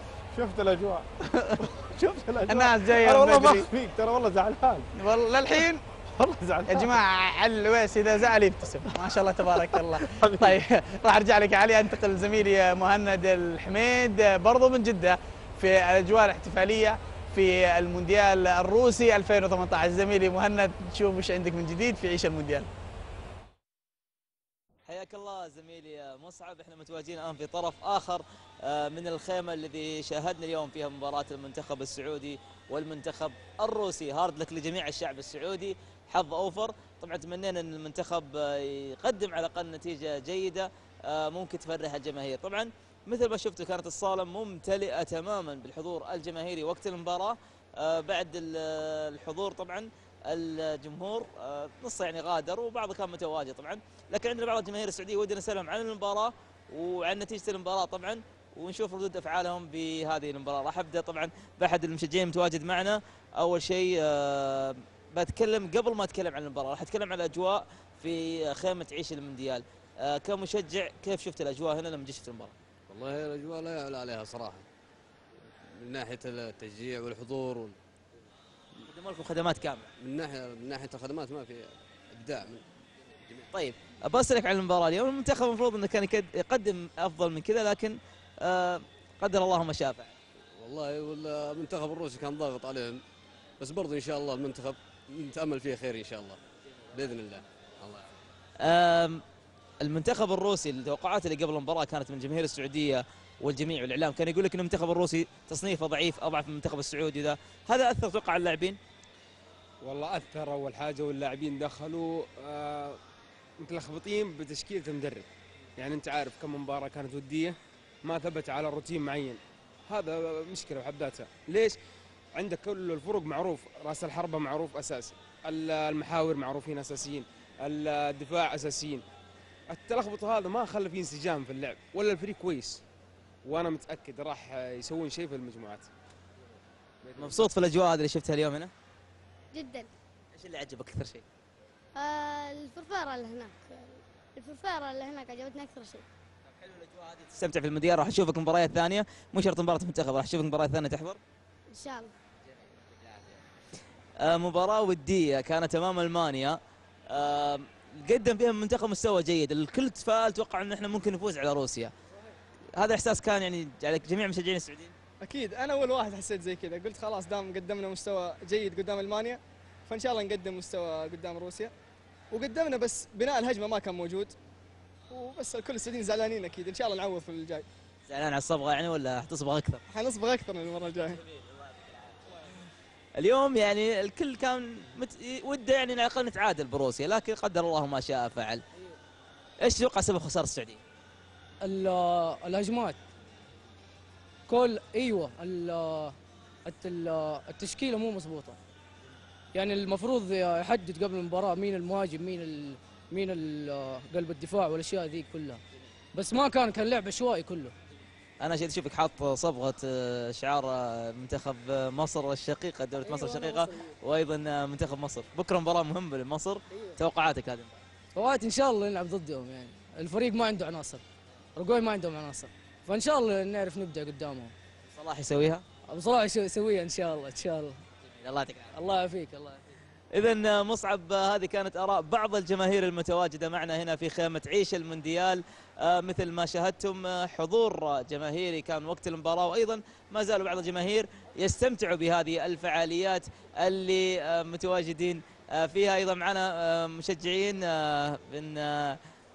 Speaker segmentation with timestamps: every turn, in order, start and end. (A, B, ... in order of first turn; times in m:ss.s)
0:00.3-0:04.9 A
0:01.3-0:01.6 B
0:02.4-0:03.7 B
0:04.9-0:05.8 B
0:06.1-0:07.0 A
0:06.7-0:22.7 B
0:09.5-0:10.6 A
0:24.9-1:12.5 C
1:12.9-1:14.6 D
1:15.8-1:17.8 D
1:18.9-1:19.9 C
1:20.0-1:22.6 D
1:23.5-1:30.1 C
1:30.6-1:33.0 D
1:33.6-1:36.4 D
1:36.9-1:38.1 D
1:38.6-1:39.2 C
1:39.8-1:48.8 C
1:49.8-1:53.0 E
1:53.6-2:01.8 E
2:02.4-2:09.0 E
2:09.7-2:12.8 E
2:13.4-2:15.9 E
2:17.0-2:17.4 E
2:17.2-2:18.7 C
2:19.5-2:19.9 F
2:20.3-2:21.2 C
2:21.9-2:26.0 F
2:26.6-2:31.2 C
2:31.7-2:32.1 F
2:34.2-2:36.6 C
2:37.1-2:41.9 C
2:42.8-2:44.9 C
2:45.2-2:51.7 G
2:52.3-2:54.4 G
2:55.1-2:57.6 G
2:58.1-2:59.8 C
2:59.9-3:01.2 G
3:01.3-3:02.6 C
3:03.2-3:08.6 C
3:09.6-3:10.8 C
3:11.6-3:13.0 H
3:14.5-3:18.6 H
3:19.5-3:25.6 H
3:26.1-3:27.7 H
3:28.4-3:37.7 C
3:33.0-3:33.9 H
3:38.1-3:41.0 H
3:41.6-3:44.5 H
3:44.9-3:45.6 C
3:45.9-3:47.8 H
3:48.2-3:48.8 C
3:48.7-3:49.6 H
3:50.1-4:09.0 C